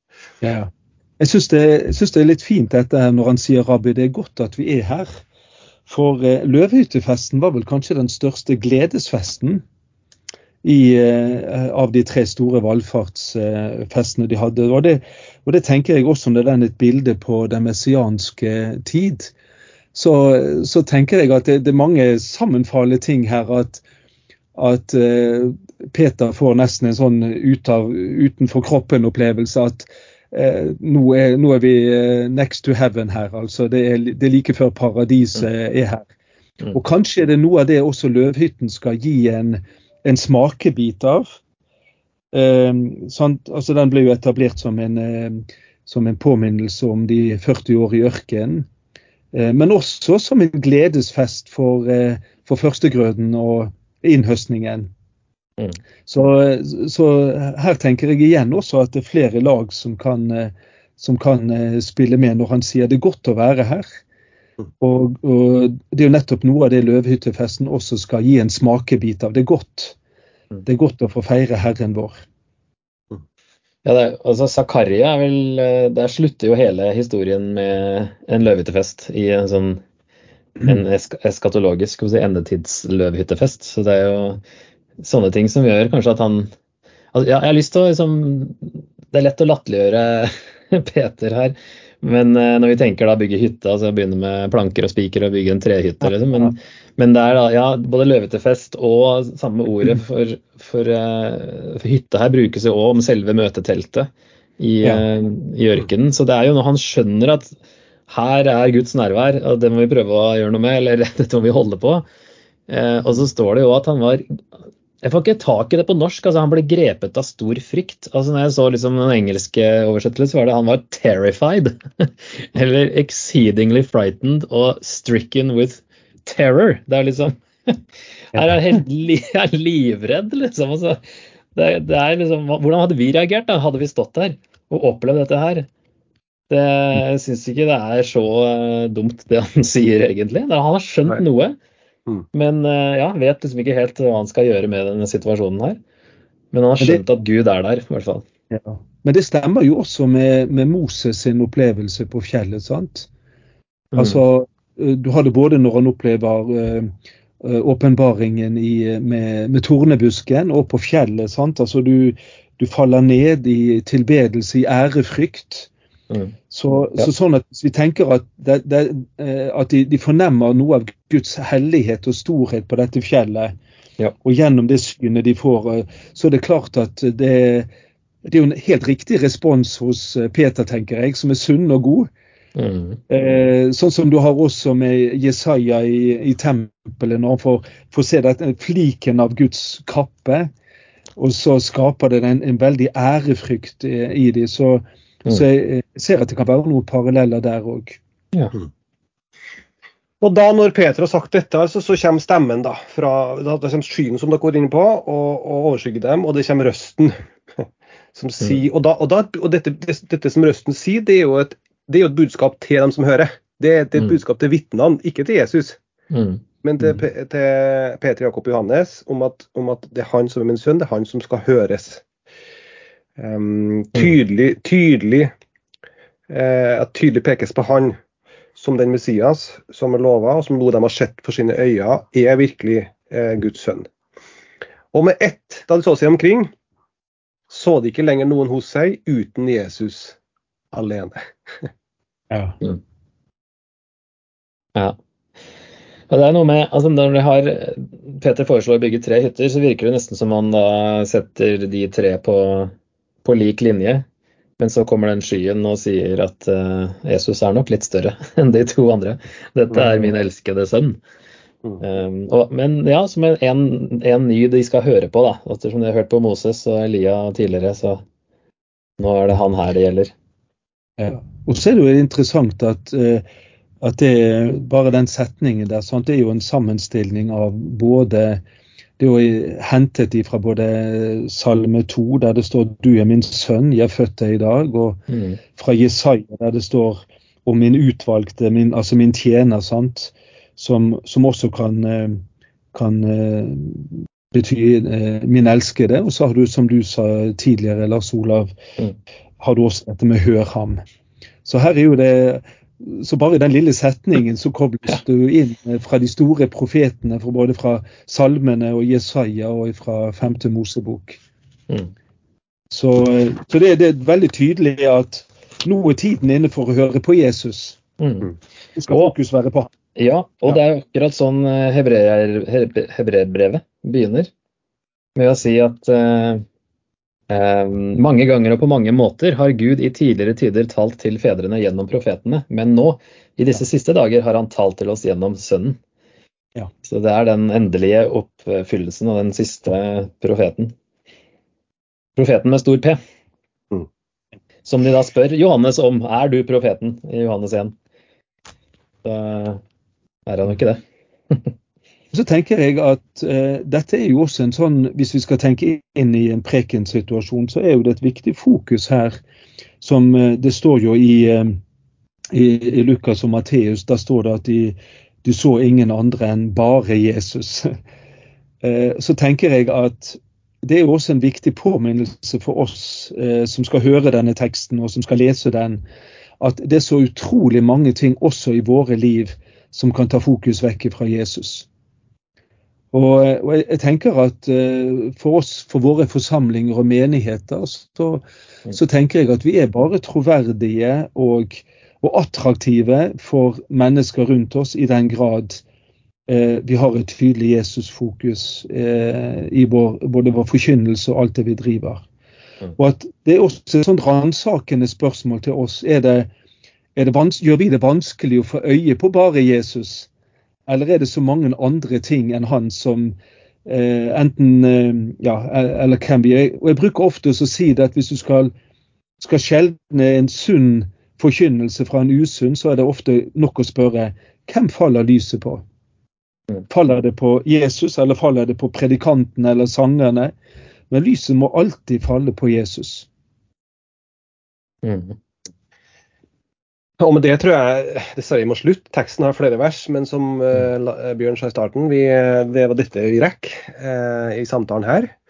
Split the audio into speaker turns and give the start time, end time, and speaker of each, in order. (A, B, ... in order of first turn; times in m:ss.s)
0:00.4-0:05.2 A
0:05.9-0:09.6 A
0:10.6-0:19.3 A
0:19.9-0:23.8 A
0:24.5-0:36.1 A
0:36.7-0:41.4 A
0:42.3-0:48.6 A
0:49.3-0:54.9 A
0:56.1-1:04.0 A
1:04.8-1:10.0 A
1:10.6-1:12.2 A
1:13.8-1:19.8 B
1:20.6-1:24.4 B
1:25.0-1:26.5 B
1:27.1-1:47.5 B
1:48.1-1:52.0 B
1:52.7-1:54.4 B
1:55.0-2:11.0 B
2:08.4-2:08.7 A
2:11.5-2:15.7 B
2:16.5-2:21.6 B
2:22.3-2:25.8 B
2:26.5-2:28.2 B
2:28.5-2:33.1 A
2:33.9-2:34.2 B
2:33.9-2:45.7 A
2:46.5-2:53.5 A
2:54.2-2:57.7 A
2:58.2-3:02.1 A
3:02.6-3:03.0 B
3:03.1-3:10.5 A
3:11.2-3:18.0 A
3:20.2-3:35.8 C
3:36.1-3:36.4 B
3:36.6-3:42.0 C
3:43.2-3:45.3 C
3:46.3-3:48.0 C
3:48.6-3:53.9 C
3:54.9-3:56.5 C
3:57.5-4:00.2 C
4:00.7-4:01.7 C
4:02.3-4:02.6 A
4:06.1-4:12.7 B
4:13.2-4:14.0 B
4:14.6-4:21.0 B
4:21.8-4:28.0 B
4:29.0-4:30.1 B
4:31.0-4:33.2 A
4:33.8-4:38.4 A
4:39.0-4:45.0 A
4:45.1-4:45.4 B
4:45.5-4:52.2 A
4:52.7-4:58.6 A
4:59.4-5:00.8 A
5:01.4-5:11.2 A
5:12.7-5:17.8 A
5:18.0-5:18.3 B
5:18.8-5:19.7 A
5:18.9-5:19.1 B
5:19.9-5:24.3 B
5:25.2-5:26.4 B
5:27.3-5:35.8 B
5:36.8-5:40.7 B
5:42.2-5:43.0 B
5:44.6-5:47.7 B
5:49.0-5:49.6 B
5:50.2-5:51.5 B
5:52.1-5:59.2 A
5:59.8-6:01.6 A
6:02.3-6:07.7 A
6:08.6-6:15.8 A
6:16.4-6:21.7 A
6:22.9-6:35.6 A
6:36.3-6:42.0 A
6:42.8-6:46.3 A
6:47.0-6:50.1 A
6:50.7-6:58.5 A
6:59.2-7:05.6 A
7:06.7-7:10.3 A
7:10.9-7:13.1 A
7:14.8-7:15.2 B
7:17.0-7:25.1 C